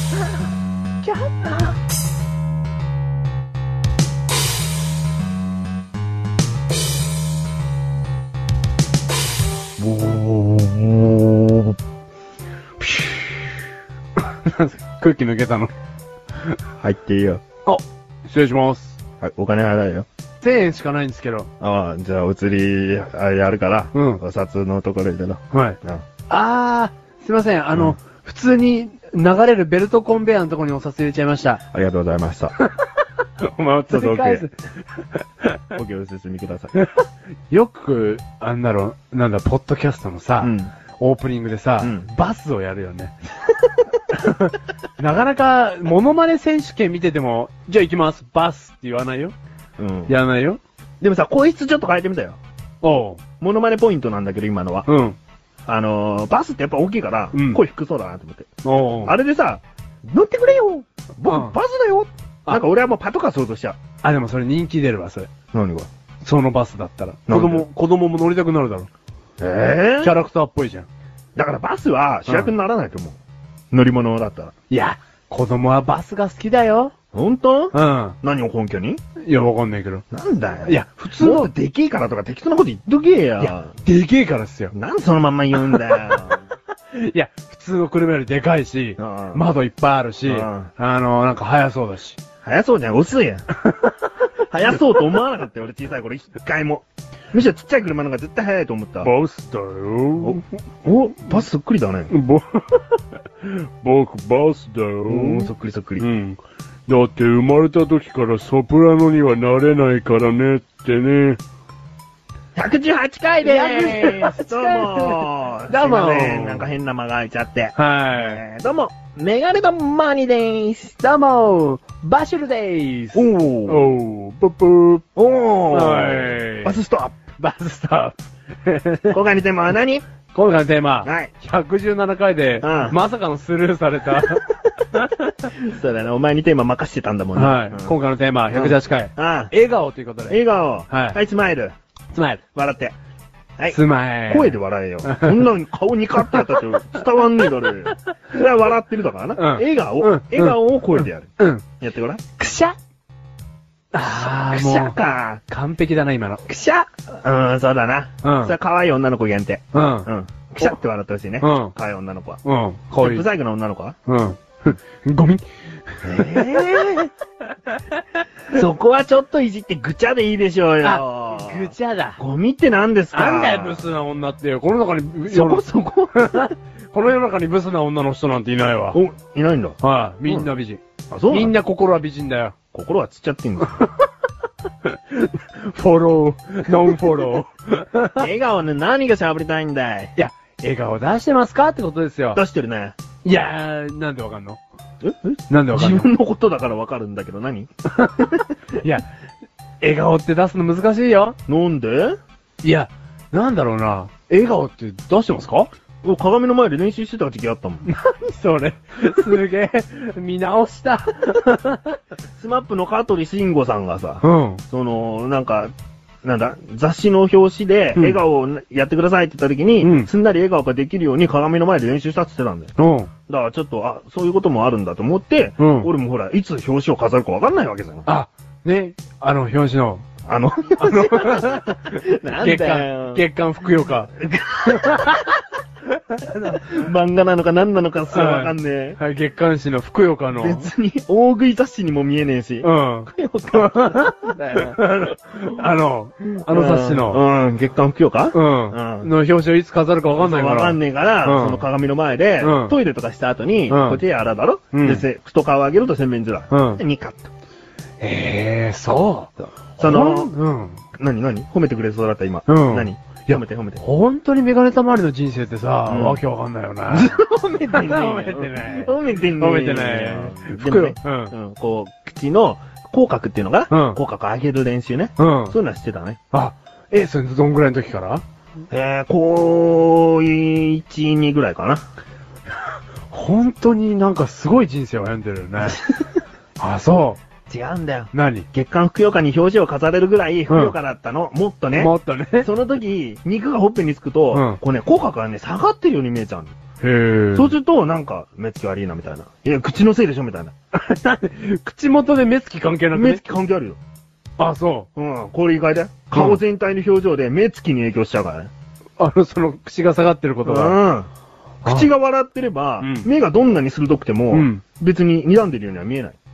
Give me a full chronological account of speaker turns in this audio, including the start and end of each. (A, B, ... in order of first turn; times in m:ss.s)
0:01.0-0:01.7 A
0:09.8-0:11.7 A
0:14.2-0:15.7 A
0:16.8-0:17.4 B
0:17.6-0:19.0 A
0:19.2-0:20.0 B
0:20.4-0:21.5 A
0:21.6-0:26.0 B
0:23.9-0:24.2 A
0:25.5-0:31.6 A
0:31.7-0:32.5 B
0:32.6-0:32.8 A
0:33.4-0:34.5 A
0:33.9-0:34.4 B
0:35.7-0:36.7 B
0:37.5-0:43.1 A
0:40.4-0:40.7 B
0:41.8-0:42.1 B
0:44.1-0:49.3 A
0:49.8-0:50.1 B
0:50.1-0:50.6 A
0:51.0-0:52.4 B
0:52.8-0:53.2 A
0:53.4-0:54.9 B
0:54.9-0:55.2 A
0:55.7-0:58.5 B
0:57.3-0:57.6 A
0:58.6-0:59.2 A
0:59.0-1:03.8 B
1:01.3-1:01.6 A
1:04.0-1:05.3 A
1:05.5-1:05.9 B
1:06.2-1:08.9 A
1:07.3-1:07.6 B
1:09.4-1:10.1 B
1:10.0-1:10.9 A
1:11.4-1:13.2 B
1:13.7-1:14.5 B
1:14.7-1:16.9 A
1:17.1-1:19.0 B
1:17.7-1:18.2 A
1:19.2-1:20.0 A
1:20.1-1:23.7 B
1:20.7-1:21.5 A
1:23.4-1:24.7 A
1:24.7-1:26.4 B
1:25.6-1:26.4 A
1:26.9-1:32.2 A
1:29.0-1:29.4 B
1:30.2-1:30.7 B
1:32.4-1:33.4 B
1:34.5-1:39.1 B
1:39.0-1:40.5 A
1:40.2-1:42.1 B
1:42.1-1:51.4 A
1:45.1-1:46.0 B
1:52.5-2:01.0 B
1:53.4-1:56.7 A
1:57.7-1:58.4 A
2:01.0-2:05.0 A
2:03.1-2:03.9 B
2:05.1-2:07.2 B
2:05.7-2:06.8 A
2:07.3-2:09.2 A
2:09.1-2:10.0 B
2:10.3-2:15.3 A
2:11.0-2:11.3 B
2:12.6-2:13.0 B
2:15.5-2:17.9 B
2:17.4-2:21.2 A
2:18.5-2:19.5 B
2:20.3-2:21.7 B
2:22.1-2:22.4 A
2:22.5-2:23.0 B
2:23.6-2:32.3 B
2:23.7-2:25.4 A
2:29.4-2:31.6 A
2:32.4-2:32.7 A
2:33.9-2:36.4 A
2:34.0-2:35.4 B
2:36.5-2:42.4 B
2:38.2-2:38.5 A
2:39.7-2:40.1 A
2:41.4-2:41.7 A
2:42.4-2:43.2 A
2:43.0-2:44.0 B
2:44.0-2:47.1 A
2:46.0-2:47.1 B
2:48.5-2:53.9 B
2:50.8-2:52.2 A
2:53.1-2:55.6 A
2:55.3-2:56.5 B
2:56.1-2:59.0 A
2:58.9-3:00.5 B
2:59.8-3:02.5 A
3:01.1-3:01.5 B
3:02.7-3:03.8 B
3:04.8-3:08.2 A
3:08.2-3:10.1 B
3:10.2-3:12.4 A
3:12.3-3:13.0 B
3:13.2-3:14.6 A
3:15.0-3:18.4 B
3:15.5-3:16.1 A
3:18.0-3:19.0 A
3:19.8-3:21.4 A
3:21.5-3:22.2 B
3:22.6-3:25.7 A
3:26.0-3:27.9 B
3:27.8-3:32.0 A
3:32.4-3:35.7 B
3:34.2-3:34.6 A
3:36.2-3:42.7 B
3:39.8-3:40.1 A
3:42.8-3:43.1 A
3:43.3-3:48.1 B
3:45.6-3:45.9 A
3:48.0-3:50.0 A
3:50.2-3:53.2 B
3:50.8-3:54.1 A
3:54.2-3:55.2 B
3:54.6-3:55.4 A
3:56.1-3:56.8 A
3:56.3-3:59.0 B
3:58.1-4:00.7 A
4:00.4-4:04.8 B
4:02.6-4:07.2 A
4:06.5-4:09.1 B
4:08.3-4:11.6 A
4:10.1-4:17.3 B
4:12.4-4:12.7 A
4:13.7-4:14.0 A
4:14.7-4:15.0 A
4:16.5-4:16.8 A
4:18.0-4:20.8 A
4:19.8-4:20.4 B
4:20.9-4:23.8 B
4:22.5-4:27.2 A
4:25.9-4:26.2 B
4:26.9-4:36.2 B
4:27.7-4:31.3 A
4:33.7-4:34.0 A
4:35.2-4:35.6 A
4:36.3-4:38.2 A
4:38.7-4:41.8 B
4:43.1-4:45.8 A
4:45.6-4:46.0 B
4:46.6-4:47.2 A
4:47.5-4:56.5 B
4:48.1-4:48.5 A
4:50.5-4:50.7 A
4:51.8-4:52.5 A
4:54.3-4:54.6 A
4:56.8-4:57.5 A
4:57.3-5:00.5 B
5:00.7-5:03.2 A
5:02.9-5:03.8 B
5:04.4-5:04.9 A
5:05.0-5:08.5 B
5:06.1-5:06.4 A
5:09.0-5:10.8 A
5:10.4-5:11.1 B
5:11.6-5:16.2 B
5:11.6-5:11.9 A
5:12.8-5:13.1 A
5:14.3-5:14.6 A